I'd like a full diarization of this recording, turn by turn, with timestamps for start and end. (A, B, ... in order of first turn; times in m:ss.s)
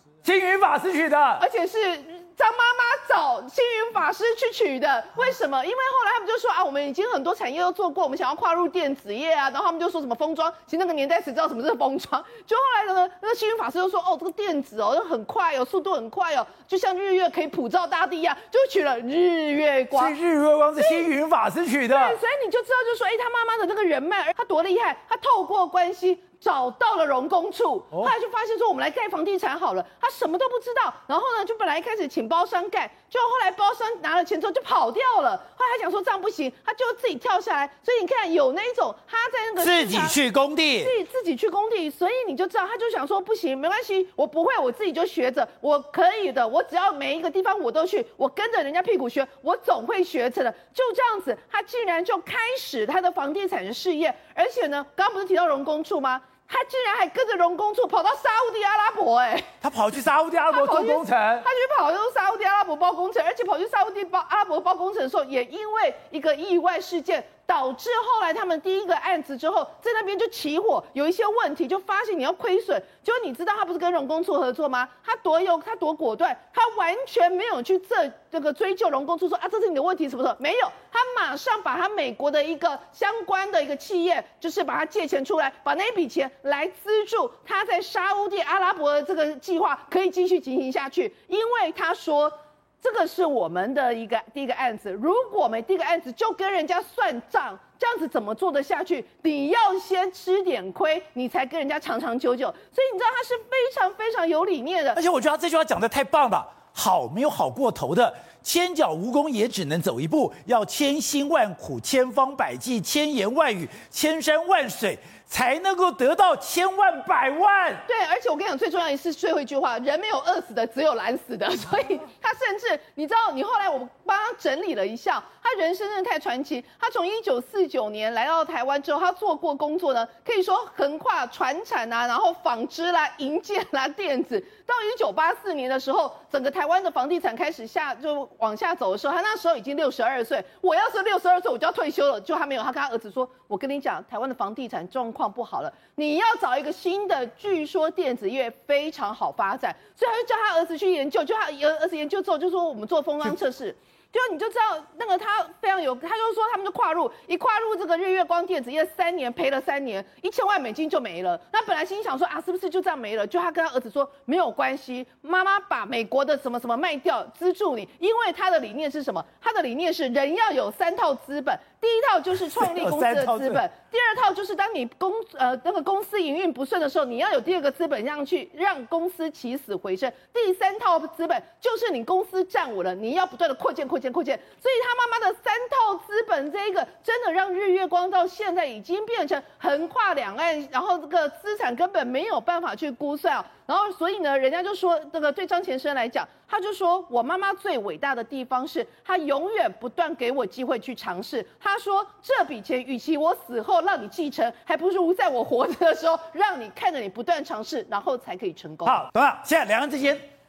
0:00.2-0:01.4 A
0:01.4-0:20.2 B
0:19.9-0:22.2 A
0:20.8-0:21.1 B
0:21.9-0:40.2 B
0:39.6-0:40.9 A
0:40.8-0:59.5 B
0:59.6-1:01.4 A
1:00.5-1:45.0 B
1:44.9-1:57.8 A
1:57.8-3:29.0 B
2:52.5-2:53.6 A
3:28.8-3:30.2 A